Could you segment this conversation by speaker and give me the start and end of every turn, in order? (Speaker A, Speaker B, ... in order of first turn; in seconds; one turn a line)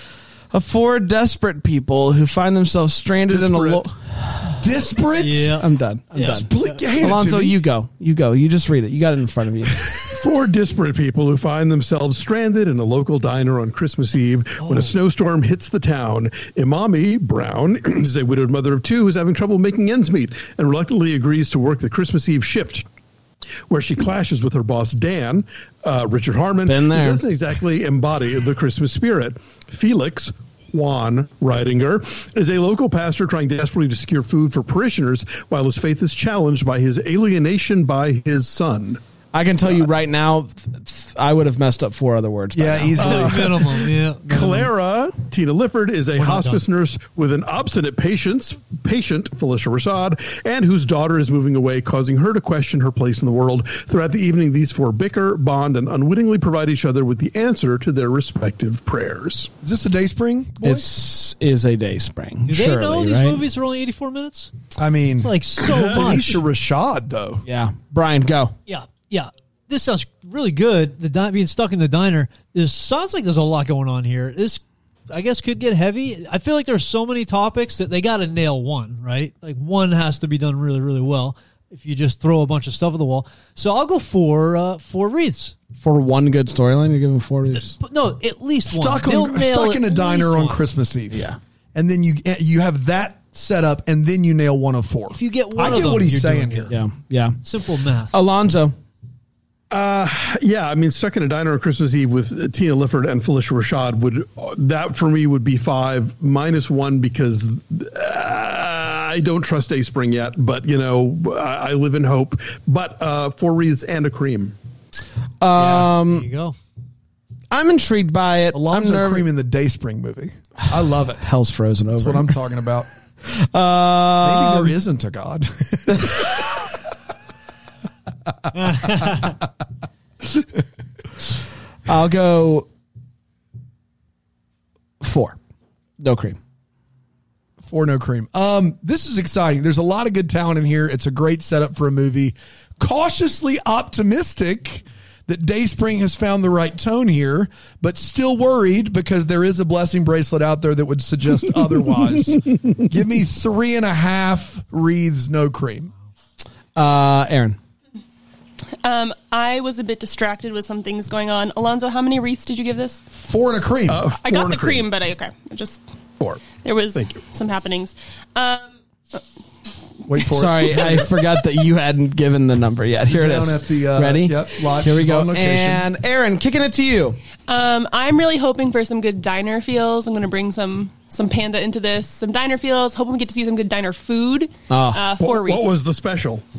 Speaker A: 0.5-4.6
Speaker B: 3.3-3.9
Speaker C: 4.6-5.6
Speaker D: 5.2-6.5
Speaker A: 5.6-9.9
Speaker C: 6.3-7.6
Speaker B: 10.1-22.9
Speaker D: 14.6-14.9
Speaker B: 23.7-39.0
Speaker A: 26.6-27.2
Speaker A: 39.3-43.4
Speaker C: 42.5-43.8
Speaker D: 43.0-44.7
Speaker B: 43.0-59.5
Speaker D: 46.2-46.6
Speaker C: 59.6-60.9
Speaker A: 60.6-63.4
Speaker D: 62.5-64.5
Speaker C: 64.8-67.4
Speaker D: 65.2-66.4
Speaker B: 65.8-66.0
Speaker A: 67.5-68.5
Speaker D: 68.7-85.5
Speaker A: 85.8-87.8
Speaker D: 87.7-90.6
Speaker C: 88.7-96.7
Speaker A: 91.1-91.4
Speaker D: 95.1-96.8
Speaker A: 96.7-97.4
Speaker D: 97.4-98.1
Speaker A: 98.1-98.8
Speaker B: 99.7-114.6
Speaker A: 115.4-116.3
Speaker D: 115.6-116.6
Speaker A: 117.5-119.3
Speaker C: 118.5-121.3
Speaker A: 121.2-122.3
Speaker C: 122.0-122.9
Speaker A: 123.2-124.8
Speaker C: 124.2-126.5
Speaker D: 128.6-129.4
Speaker A: 131.9-132.7
Speaker A: 135.0-135.4
Speaker A: 136.0-136.4
Speaker C: 137.7-155.9
Speaker A: 156.8-157.6
Speaker E: 158.8-163.0
Speaker C: 163.2-164.1
Speaker B: 163.9-164.9
Speaker E: 164.2-165.8
Speaker B: 166.2-167.2
Speaker E: 166.6-168.7
Speaker C: 170.1-171.1
Speaker A: 170.3-177.2
Speaker C: 173.1-175.8
Speaker E: 177.5-185.8
Speaker A: 184.7-185.1
Speaker B: 185.2-186.4